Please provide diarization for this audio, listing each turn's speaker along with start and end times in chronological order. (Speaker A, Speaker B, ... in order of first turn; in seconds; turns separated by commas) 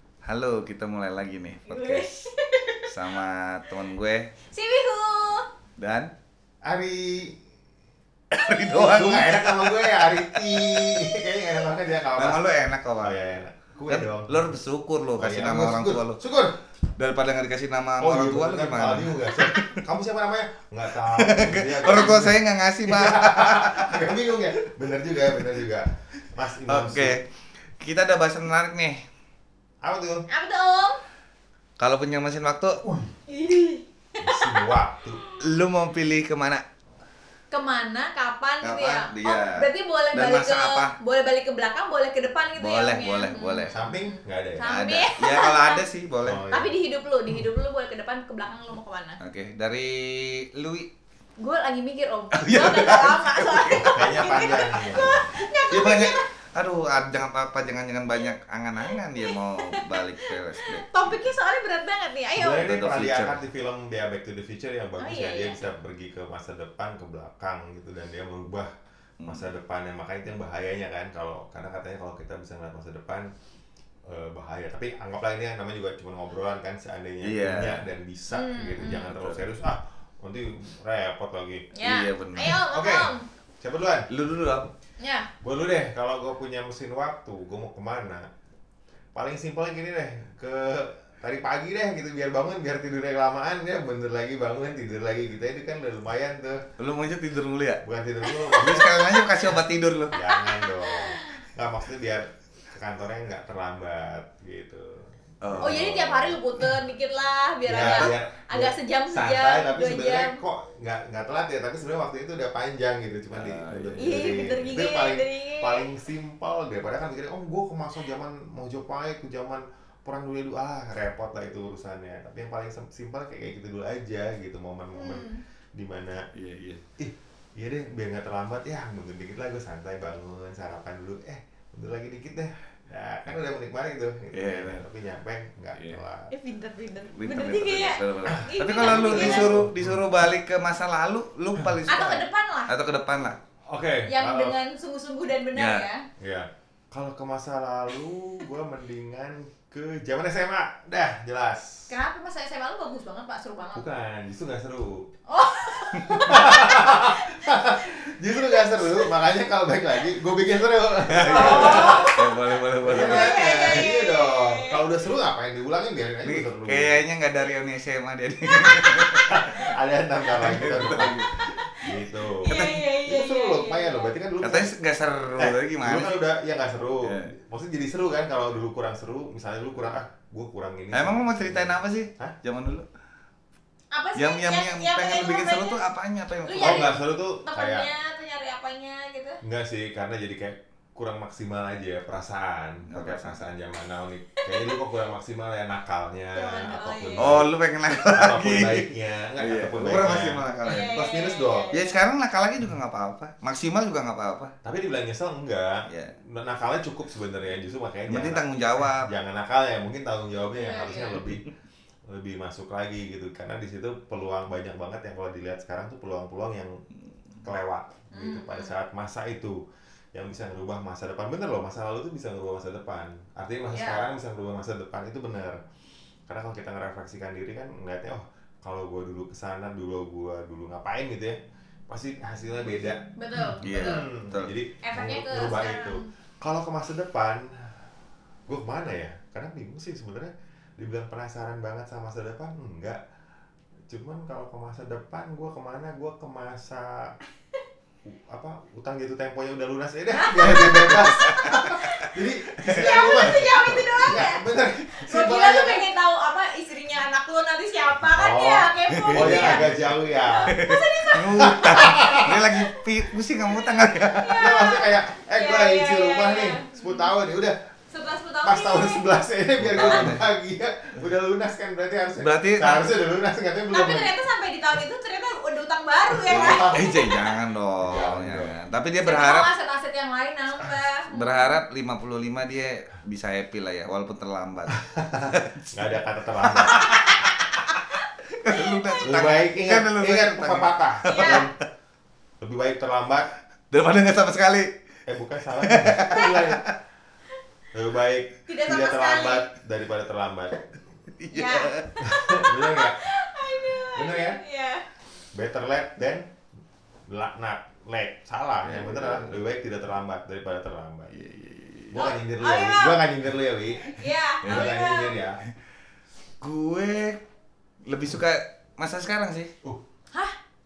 Speaker A: 0.2-2.1, Speaker B: 1.7-3.1, Speaker A: 2.9-4.3, Speaker B: 4.5-5.5, Speaker A: 5.8-6.1, Speaker C: 6.6-7.4, Speaker A: 8.3-11.1, Speaker C: 8.7-14.4, Speaker A: 12.1-13.2, Speaker A: 13.9-16.2, Speaker C: 15.2-16.6, Speaker A: 16.9-19.8, Speaker C: 18.0-27.1, Speaker A: 21.0-24.1, Speaker A: 26.7-27.2, Speaker A: 27.8-29.0, Speaker C: 29.8-30.2, Speaker B: 30.3-31.0, Speaker A: 31.8-32.8, Speaker C: 32.8-33.1, Speaker B: 33.3-35.4, Speaker C: 34.2-35.2, Speaker A: 35.4-36.6, Speaker B: 37.5-45.8, Speaker A: 38.6-41.0, Speaker A: 42.6-43.8, Speaker C: 43.7-44.8, Speaker A: 44.6-46.5, Speaker C: 46.2-46.8, Speaker B: 46.5-49.2, Speaker A: 49.2-50.9, Speaker B: 51.4-56.2, Speaker A: 52.3-55.2, Speaker C: 53.7-55.2, Speaker A: 55.7-61.2, Speaker B: 58.8-62.8, Speaker C: 62.3-68.7, Speaker A: 62.6-63.4, Speaker B: 65.0-65.7, Speaker C: 69.2-73.3, Speaker C: 74.0-81.7, Speaker A: 77.2-77.8, Speaker B: 78.3-79.1, Speaker A: 78.8-79.4, Speaker B: 81.7-83.2, Speaker A: 81.8-82.6, Speaker C: 82.6-84.1, Speaker A: 84.1-84.7, Speaker B: 85.0-85.3, Speaker C: 85.4-88.3, Speaker C: 89.1-96.7, Speaker A: 96.8-97.8, Speaker C: 97.8-99.0, Speaker B: 98.2-99.5, Speaker A: 98.5-100.2, Speaker C: 100.1-106.4, Speaker B: 100.2-101.4, Speaker A: 105.4-106.3, Speaker B: 105.6-110.4, Speaker C: 107.6-126.3, Speaker A: 113.3-114.3, Speaker B: 114.0-115.9, Speaker B: 124.9-125.4, Speaker A: 126.3-126.8, Speaker C: 127.0-136.3, Speaker A: 134.3-134.8, Speaker B: 136.3-139.6, Speaker A: 137.1-143.4, Speaker C: 138.3-140.1, Speaker B: 141.9-142.7, Speaker C: 143.7-144.6, Speaker B: 144.1-146.1, Speaker A: 145.5-145.8, Speaker C: 146.2-151.9, Speaker B: 151.9-153.8, Speaker C: 153.7-155.1, Speaker B: 155.3-157.6, Speaker A: 155.9-156.3, Speaker C: 156.2-162.2, Speaker B: 158.3-159.0, Speaker A: 161.1-163.8, Speaker B: 161.2-164.8, Speaker C: 162.8-167.0, Speaker A: 166.2-169.5, Speaker C: 169.3-174.8, Speaker A: 170.3-171.5, Speaker B: 171.6-174.1, Speaker A: 174.4-176.2, Speaker C: 175.4-182.3, Speaker A: 177.0-177.3, Speaker A: 180.9-182.9, Speaker B: 183.9-185.8, Speaker A: 184.1-186.9, Speaker B: 186.4-189.4, Speaker C: 186.6-187.9, Speaker C: 189.4-201.7, Speaker A: 192.9-193.4, Speaker B: 194.3-194.8, Speaker B: 196.3-197.4, Speaker A: 197.2-201.0, Speaker B: 200.6-201.9, Speaker A: 201.7-204.5, Speaker C: 204.6-211.5, Speaker A: 205.9-206.2, Speaker A: 208.1-209.1, Speaker B: 210.5-211.3, Speaker C: 212.1-216.8, Speaker C: 217.4-219.6, Speaker B: 218.1-218.7, Speaker C: 220.1-225.6, Speaker B: 223.7-224.1, Speaker C: 226.3-237.8, Speaker B: 233.2-234.1, Speaker A: 233.6-234.5, Speaker B: 234.8-236.0, Speaker C: 238.5-243.0, Speaker C: 243.9-247.2, Speaker C: 248.0-255.8, Speaker B: 250.1-252.1, Speaker A: 250.4-252.1, Speaker A: 252.6-253.3, Speaker B: 252.6-262.6, Speaker C: 258.1-260.6, Speaker A: 258.9-259.7, Speaker A: 260.5-264.4, Speaker C: 261.4-262.4, Speaker B: 263.5-267.1, Speaker C: 264.3-267.6, Speaker B: 267.9-269.1, Speaker C: 268.4-274.1, Speaker A: 269.6-270.2, Speaker B: 269.8-270.1, Speaker A: 272.2-272.9, Speaker B: 273.7-277.3, Speaker C: 276.1-277.1, Speaker A: 276.3-279.5, Speaker C: 277.8-278.5, Speaker B: 279.0-281.6, Speaker A: 281.1-287.3, Speaker C: 284.8-287.1, Speaker B: 286.7-287.8, Speaker A: 288.2-291.5, Speaker B: 288.4-289.2, Speaker C: 289.0-291.5, Speaker B: 291.0-291.5, Speaker C: 292.4-293.3, Speaker A: 293.7-294.7, Speaker C: 295.1-296.7, Speaker A: 295.6-296.7, Speaker C: 297.7-300.8, Speaker B: 298.5-299.5, Speaker A: 301.1-302.0, Speaker B: 301.3-304.9, Speaker C: 302.0-303.0, Speaker C: 303.9-304.4, Speaker C: 305.3-306.3, Speaker C: 307.1-311.2, Speaker A: 308.6-309.4, Speaker A: 311.1-311.9, Speaker C: 311.9-315.4, Speaker B: 311.9-313.0, Speaker B: 313.8-315.2, Speaker A: 316.4-317.2, Speaker A: 317.9-319.5